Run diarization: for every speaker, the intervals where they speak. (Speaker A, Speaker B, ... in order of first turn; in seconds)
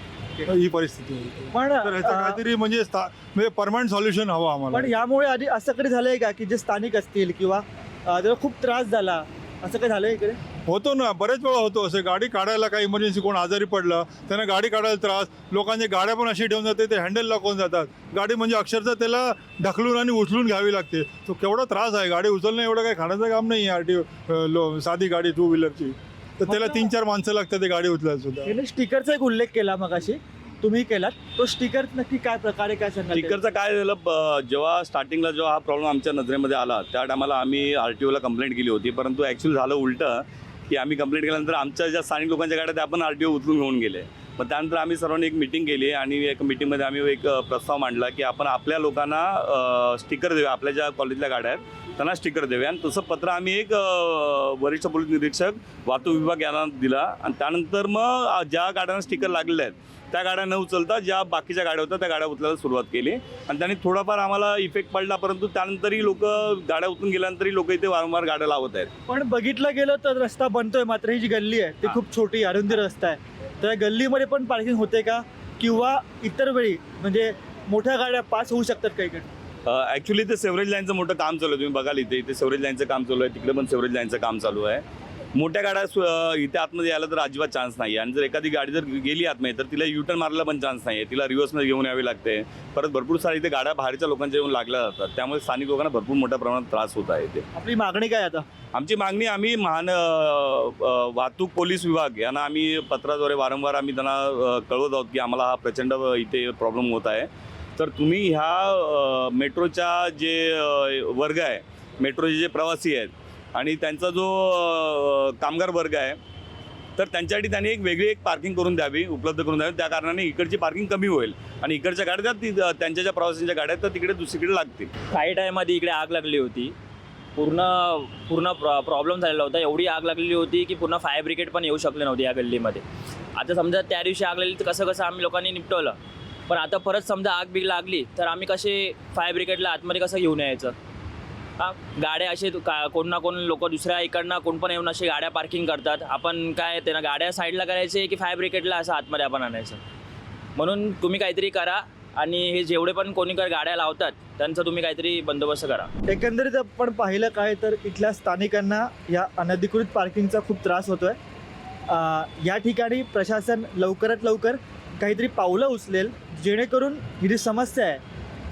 Speaker A: 0.5-4.9, 10.7-28.5
Speaker B: 1.5-2.4, 4.7-10.4, 26.4-26.9, 28.4-33.4, 69.1-79.3, 97.5-98.4, 156.1-161.2, 161.9-168.0
Speaker C: 33.1-68.9, 79.6-84.8, 85.3-97.4, 98.7-116.2, 117.0-124.9
Speaker D: 125.1-126.7, 127.3-132.8, 133.3-136.0, 136.5-140.7, 141.6-149.8, 150.6-155.9